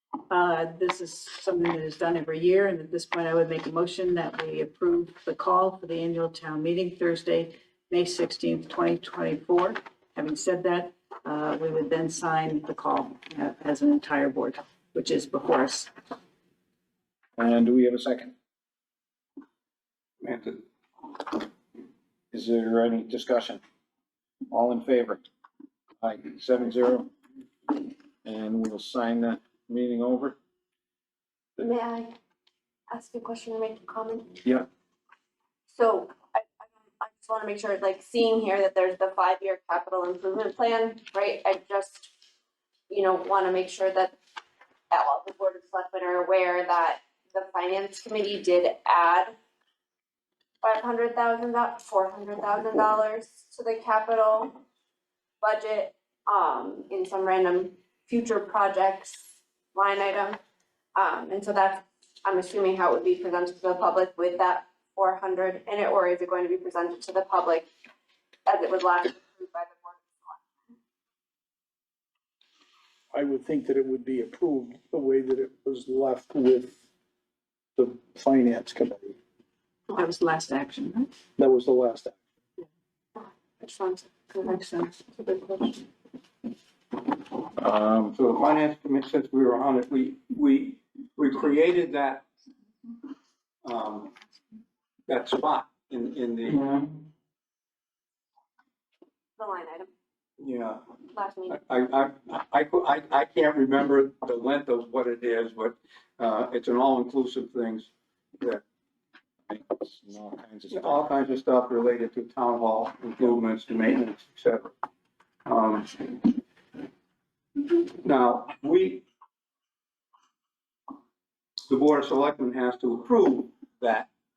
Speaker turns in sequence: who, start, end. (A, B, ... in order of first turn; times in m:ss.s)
0:00.3-0:15.9 A
0:17.4-0:18.3 B
0:20.2-0:20.6 C
0:22.3-0:23.6 B
0:24.5-0:25.2 B
0:26.0-0:27.1 B
0:28.2-0:30.4 B
0:31.6-0:32.2 D
0:32.9-0:34.4 D
0:35.7-0:42.1 D
0:42.9-0:44.2 D
0:44.9-0:49.4 D
0:50.6-0:54.6 D
0:55.4-1:00.4 D
1:01.0-1:07.7 D
1:08.5-1:10.4 D
1:13.1-1:16.8 E
1:17.8-1:19.2 E
1:19.9-1:21.1 A
1:21.4-1:22.2 E
1:23.2-1:25.8 D
1:24.4-1:24.9 A
1:27.6-1:28.2 B
1:28.1-1:32.3 C
1:33.6-1:34.1 C
1:35.1-1:37.0 C
1:39.4-1:39.9 D
1:40.4-1:40.9 C
1:41.1-1:41.6 D
1:41.5-1:48.6 C
1:49.5-1:51.2 B
1:50.7-1:54.7 C
1:55.5-1:56.4 C
1:57.7-1:59.0 C
2:01.7-2:04.1 C